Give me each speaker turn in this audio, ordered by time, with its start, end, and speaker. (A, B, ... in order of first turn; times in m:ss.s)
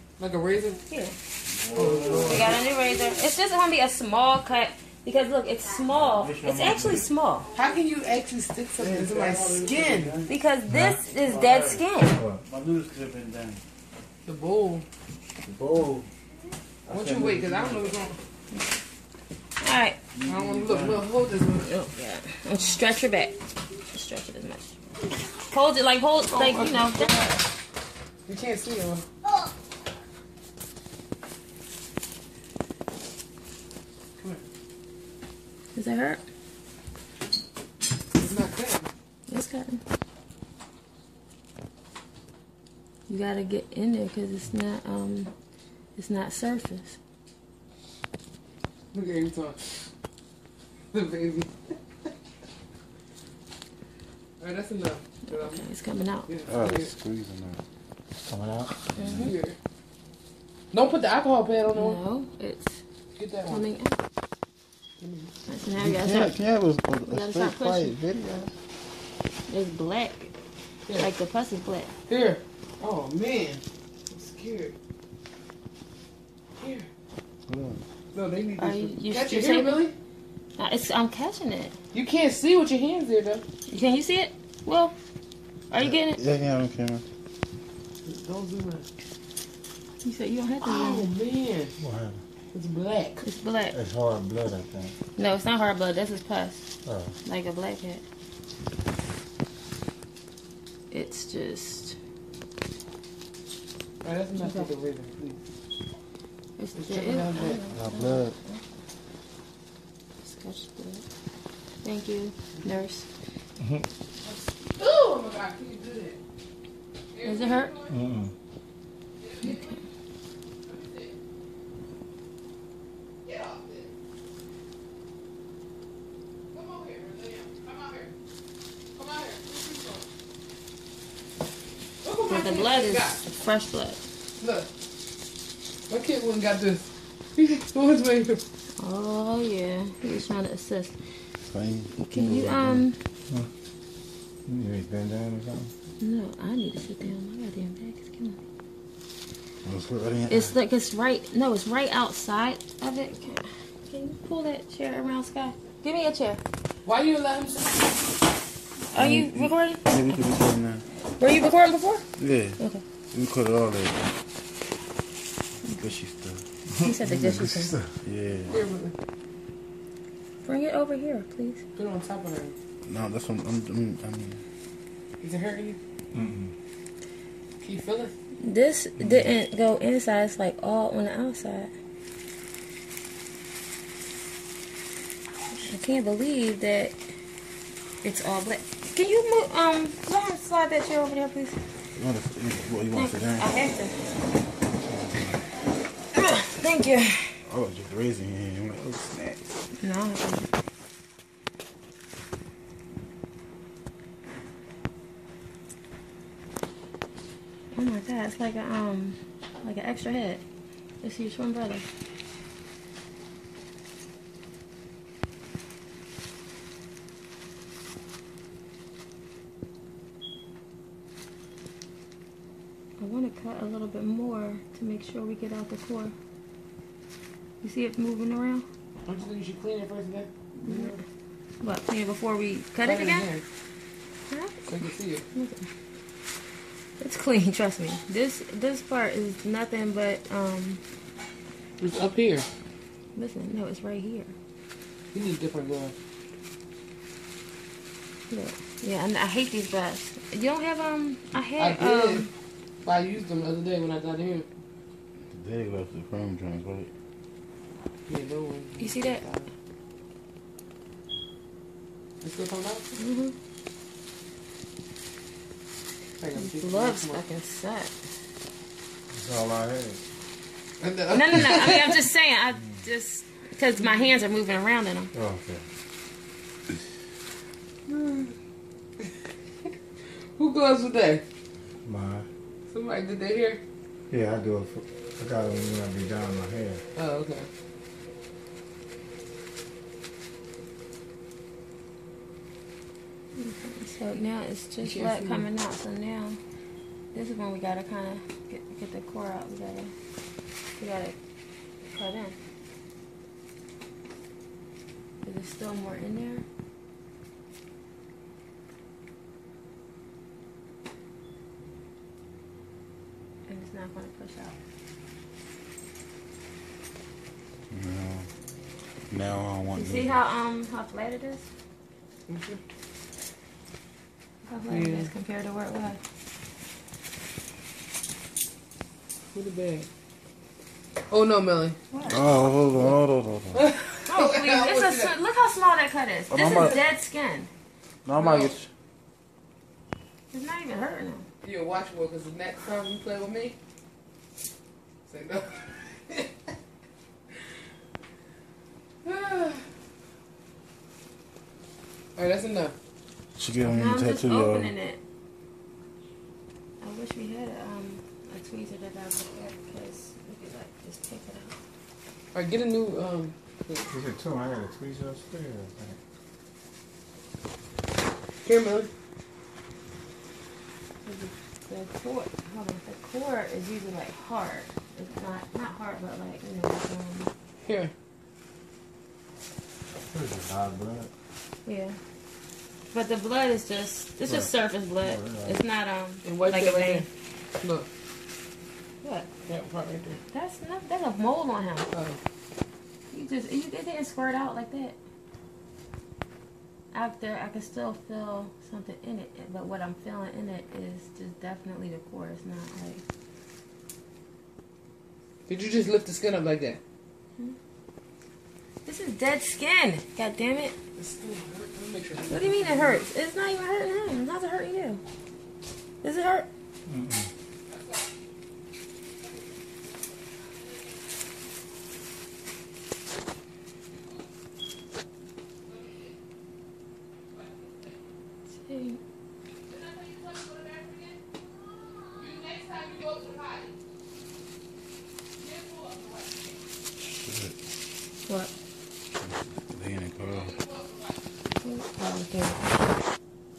0:00.2-0:00.8 A
0:00.9-0:01.2 B
0:01.5-0:02.6 C
0:01.7-0:02.6 A
0:02.2-0:07.5 B
0:05.9-0:07.0 C
0:07.5-0:10.1 A
0:08.8-0:13.6 C
0:10.1-0:12.2 B
0:12.1-0:12.4 D
0:14.2-0:14.8 A
0:15.4-0:16.1 C
0:16.9-0:17.9 C
0:16.9-0:18.2 A
0:19.6-0:20.0 B
0:20.1-0:21.1 C
0:20.2-0:21.7 A
0:21.6-0:24.8 B
0:25.3-0:27.3 B
0:26.3-0:27.4 A
0:28.2-0:29.1 A
0:34.2-0:34.4 A
0:35.7-0:36.2 B
0:38.2-0:38.9 A
0:39.3-0:39.8 B
0:43.1-0:45.3 B
0:45.9-0:47.0 B
0:48.9-0:49.6 A
0:50.9-0:51.5 A
0:54.4-0:55.6 A
0:55.2-0:56.3 B
0:56.3-0:56.9 A
0:56.5-0:57.6 C
0:58.2-0:58.8 D
0:59.0-0:59.3 B
0:59.0-0:59.6 A
1:00.7-1:02.0 A
1:01.7-1:02.8 B
1:03.2-1:03.6 A
1:03.5-1:04.0 B
1:05.0-1:05.3 A
1:05.5-1:06.4 B
1:05.8-1:08.5 C
1:07.0-1:08.0 B
1:09.5-1:10.3 B
1:11.0-1:11.9 B
1:12.1-1:14.7 A
1:16.6-1:16.9 A
1:17.5-1:17.8 C
1:18.1-1:19.9 A
1:18.6-1:19.8 B
1:20.6-1:21.7 B
1:21.9-1:23.4 A
1:23.7-1:24.9 B
1:25.7-1:26.2 B
1:25.8-1:27.0 C
1:28.0-1:28.8 A
1:30.0-1:31.1 B
1:30.6-1:31.7 A
1:31.8-1:32.2 D
1:32.5-1:33.2 A
1:33.2-1:33.7 B
1:33.7-1:34.9 D
1:35.2-1:36.6 B
1:36.8-1:37.1 D
1:37.2-1:38.0 B
1:40.9-1:42.0 B
1:44.0-1:45.4 A
1:44.4-1:44.7 B
1:46.6-1:48.6 B
1:46.8-1:47.6 A
1:47.7-1:48.3 C
1:50.2-1:51.0 B
1:51.8-1:53.1 B
1:53.6-1:53.8 D
1:54.2-1:56.2 A
1:57.1-1:58.0 A
1:57.2-1:57.7 B
1:57.9-1:58.3 D
1:59.2-1:59.8 A
2:00.6-2:01.2 A
2:03.2-2:03.9 A
2:06.5-2:08.1 A
2:08.9-2:10.1 A
2:12.0-2:13.2 A
2:12.3-2:14.0 B
2:14.4-2:14.7 A
2:15.9-2:18.4 A
2:18.8-2:21.0 B
2:21.4-2:22.8 C
2:22.0-2:23.0 B
2:24.4-2:25.7 D
2:26.0-2:28.4 B
2:29.6-2:30.5 C
2:30.3-2:36.4 B
2:36.8-2:37.9 A
2:38.9-2:40.0 B
2:38.9-2:40.8 C
2:41.2-2:42.1 B
2:42.2-2:42.6 C
2:42.6-2:42.8 B
2:43.1-2:44.1 C
2:45.7-2:46.4 C
2:46.7-2:47.9 D
2:46.8-2:47.8 B
2:48.0-2:48.6 C
2:48.5-2:48.9 A
2:50.4-2:51.6 B
2:51.7-2:52.5 A
2:52.8-2:54.4 C
2:55.2-2:55.8 A
2:56.1-2:56.5 D
2:57.6-2:58.1 A
2:58.4-3:01.7 B
3:05.6-3:07.0 B
3:08.0-3:11.6 B
3:12.0-3:13.5 C
3:12.9-3:13.9 B
3:14.9-3:15.4 C
3:16.1-3:17.4 B
3:17.4-3:19.4 C
3:19.8-3:20.5 B
3:27.7-3:30.4 B
3:31.0-3:31.8 B
3:43.0-3:46.1 B
3:47.6-3:48.6 B
3:49.0-3:51.0 A
3:50.6-3:51.0 B
3:51.6-3:53.3 B
3:52.8-3:53.4 A
3:54.3-3:55.7 B
3:54.7-3:55.2 A
3:57.0-4:00.8 B
4:01.8-4:02.4 A
4:03.1-4:04.3 B
4:05.1-4:05.9 A
4:08.3-4:12.3 B
4:11.6-4:12.3 A
4:12.8-4:14.5 A
4:15.3-4:16.9 C
4:18.1-4:19.5 A
4:18.8-4:19.2 B
4:22.2-4:22.9 A
4:22.9-4:23.3 B
4:26.2-4:27.2 A
4:26.3-4:27.9 B
4:29.1-4:30.0 D
4:30.8-4:32.0 A
4:31.1-4:35.1 B
4:35.1-4:35.6 D
4:37.9-4:38.3 A
4:40.4-4:41.2 A
4:41.8-4:42.3 D
4:42.7-4:43.6 A
4:44.1-4:46.8 D
4:47.0-4:47.5 A
4:53.3-4:56.4 B
4:54.8-4:55.4 A
4:57.1-4:59.9 B
5:00.7-5:01.2 B
5:01.8-5:02.4 B
5:05.2-5:06.4 B
5:13.5-5:14.6 B
5:17.7-5:18.3 C
5:19.1-5:20.2 C
5:19.7-5:21.5 B
5:22.3-5:22.6 A
5:24.4-5:26.0 B
5:24.7-5:25.1 A
5:29.3-5:29.9 A
5:31.1-5:31.8 A
5:31.9-5:32.3 B
5:32.1-5:33.6 C
5:33.5-5:35.1 A
5:34.0-5:37.5 B
5:36.3-5:36.8 C
5:38.0-5:38.7 C
5:38.2-5:38.6 A
5:40.3-5:41.3 B
5:41.4-5:43.6 A
5:45.1-5:46.5 A
5:49.0-5:49.6 A
5:52.2-5:52.7 A
5:53.4-5:54.7 C
5:53.6-5:55.0 B
5:56.8-6:01.6 B
6:02.3-6:03.9 A
6:03.9-6:06.0 D
6:08.4-6:08.9 A
6:11.0-6:17.3 B
6:17.6-6:17.9 A
6:20.1-6:21.1 D
6:21.6-6:22.0 B
6:22.9-6:27.0 B
6:25.0-6:25.6 D
6:26.2-6:27.1 A
6:27.6-6:27.9 A
6:29.0-6:29.3 B
6:29.4-6:30.2 A
6:30.3-6:31.9 B
6:31.9-6:32.2 A
6:33.1-6:35.0 B
6:36.9-6:43.0 B
6:45.5-6:46.8 A
6:48.8-6:50.7 B
6:51.0-6:53.0 A
6:52.3-6:55.0 B
6:56.0-6:56.5 B
6:56.8-6:57.3 D
6:57.6-6:58.1 A
6:59.2-7:01.2 A
7:03.9-7:04.2 A
7:05.6-7:06.2 A
7:07.3-7:08.0 A
7:08.5-7:09.0 B
7:09.7-7:11.2 A
7:12.1-7:13.7 A
7:15.4-7:16.6 A
7:17.1-7:17.6 C
7:18.3-7:18.5 B
7:19.2-7:20.5 C
7:20.2-7:21.4 A
7:21.6-7:22.8 B